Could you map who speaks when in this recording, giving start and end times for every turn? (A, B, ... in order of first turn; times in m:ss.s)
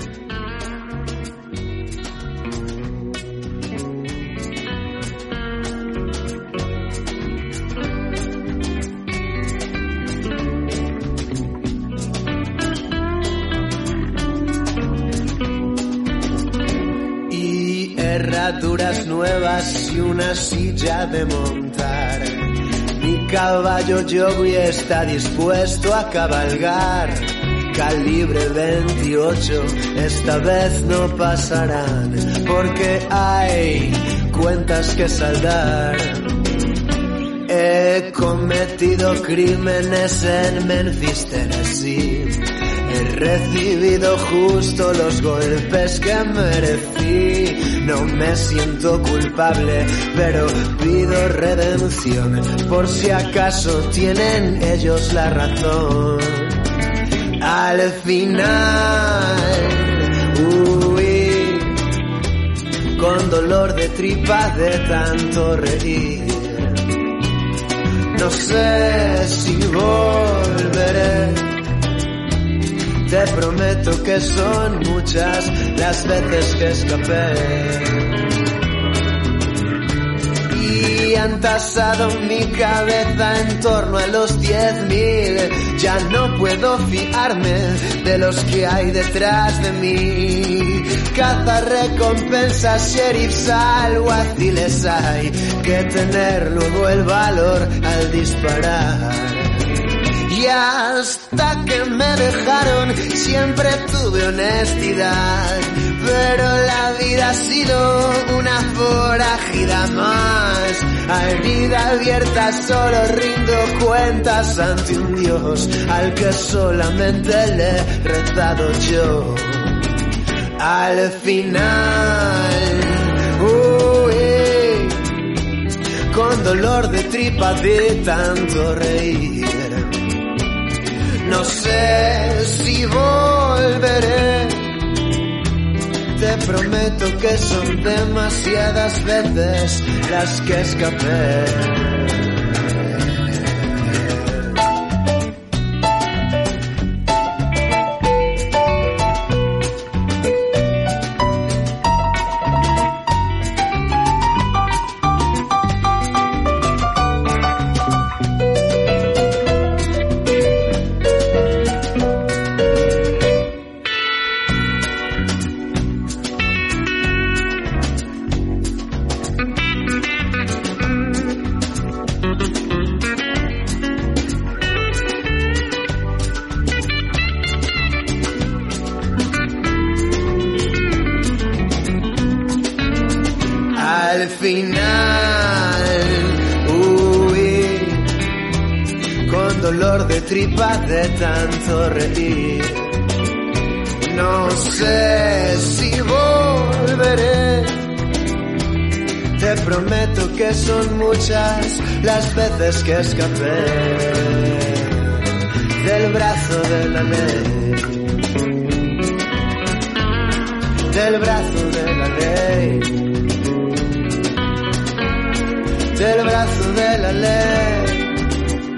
0:17.3-0:36.4 A
0:37.5-0:56.6 A
0:57.4-1:01.8 A
1:03.0-1:06.9 A
1:08.1-1:11.6 A
1:13.1-1:18.2 A
1:20.5-1:59.9 A
2:00.6-2:05.2 A
2:06.1-2:10.1 A
2:11.2-2:15.0 A
2:16.1-2:24.7 A
3:03.7-3:08.1 A
3:09.3-3:13.0 A
3:14.0-3:18.0 A
3:19.4-3:28.1 A
3:30.9-3:32.9 A
3:35.9-3:38.2 A